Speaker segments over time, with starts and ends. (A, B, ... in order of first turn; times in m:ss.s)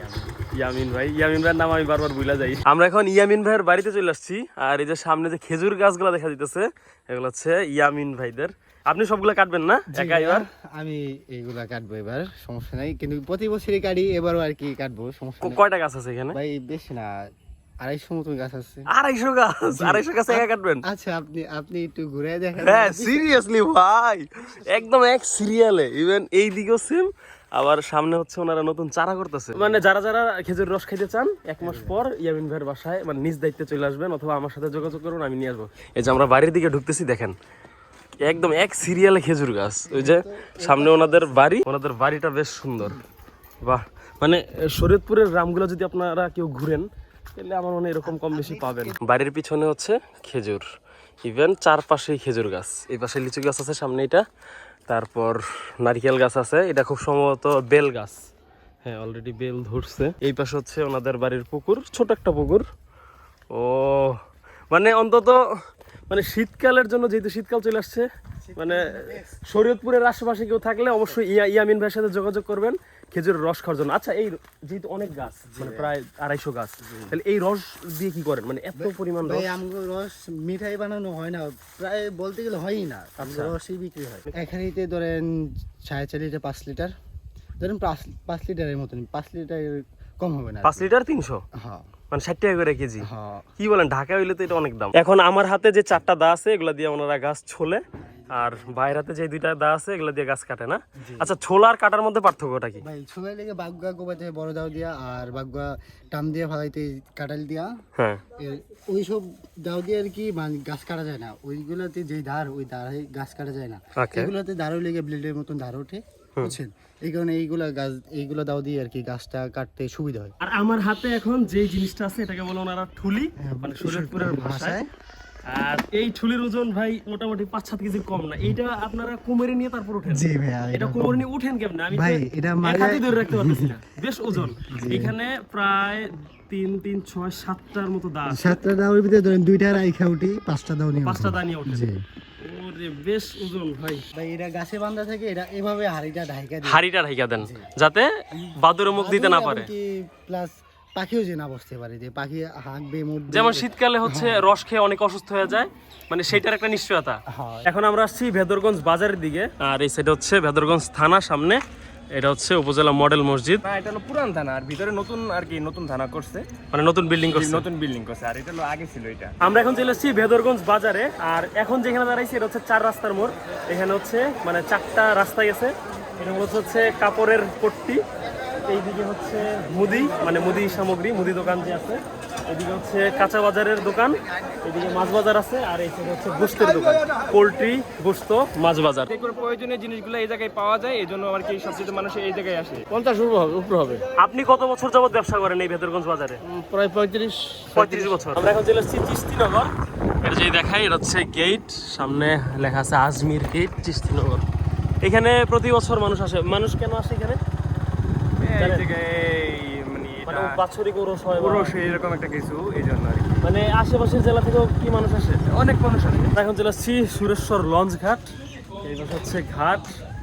0:00.4-0:10.4 A
0:09.9-0:15.6 B
0:15.4-0:16.4 A
0:16.3-0:17.2 B
0:17.8-0:18.8 B
0:18.9-0:20.8 A
0:19.7-0:23.4 B
0:22.6-0:37.3 A
0:31.6-0:32.0 B
0:38.2-0:43.0 A
0:39.9-0:41.5 B
0:43.6-0:50.6 A
0:48.0-0:49.0 B
0:51.2-0:54.2 A
0:54.9-0:58.2 A
0:58.8-1:02.6 A
1:03.5-1:04.2 A
1:04.7-1:05.4 A
1:06.1-1:19.5 A
1:08.4-1:09.4 B
1:15.4-1:15.9 B
1:18.8-1:26.9 B
1:23.2-1:23.6 A
1:27.6-1:30.9 B
1:30.6-1:31.4 A
1:31.6-1:31.9 B
1:32.1-1:33.1 A
1:33.0-1:33.5 B
1:33.6-1:42.8 A
1:38.1-1:38.8 B
1:41.0-1:41.3 B
1:42.8-1:47.7 B
1:48.0-1:48.2 A
1:48.4-2:00.3 B
1:54.0-1:54.3 A
2:00.4-2:04.8 A
2:03.4-2:04.9 B
2:05.4-2:18.6 A
2:10.1-2:11.2 B
2:11.9-2:13.8 B
2:14.3-2:15.1 B
2:18.3-2:22.0 B
2:21.0-2:21.9 A
2:22.4-2:24.0 A
2:24.1-2:26.8 B
2:26.6-2:29.7 A
2:27.4-2:27.7 B
2:28.9-2:34.5 B
2:33.3-2:41.6 A
2:37.3-2:37.7 B
2:42.1-2:43.6 A
2:43.6-2:46.4 C
2:46.7-2:47.6 A
2:47.3-2:49.4 C
2:49.4-2:58.0 A
2:58.6-3:09.1 A
3:09.1-3:14.0 C
3:14.2-3:16.4 A
3:16.5-3:18.1 C
3:17.7-3:19.7 A
3:20.2-3:24.4 A
3:25.0-3:27.4 A
3:28.4-3:30.6 C
3:28.6-3:28.9 A
3:30.2-3:31.8 A
3:31.3-3:33.4 C
3:33.4-3:35.4 A
3:35.5-3:36.3 C
3:36.3-3:38.3 A
3:38.8-3:39.9 A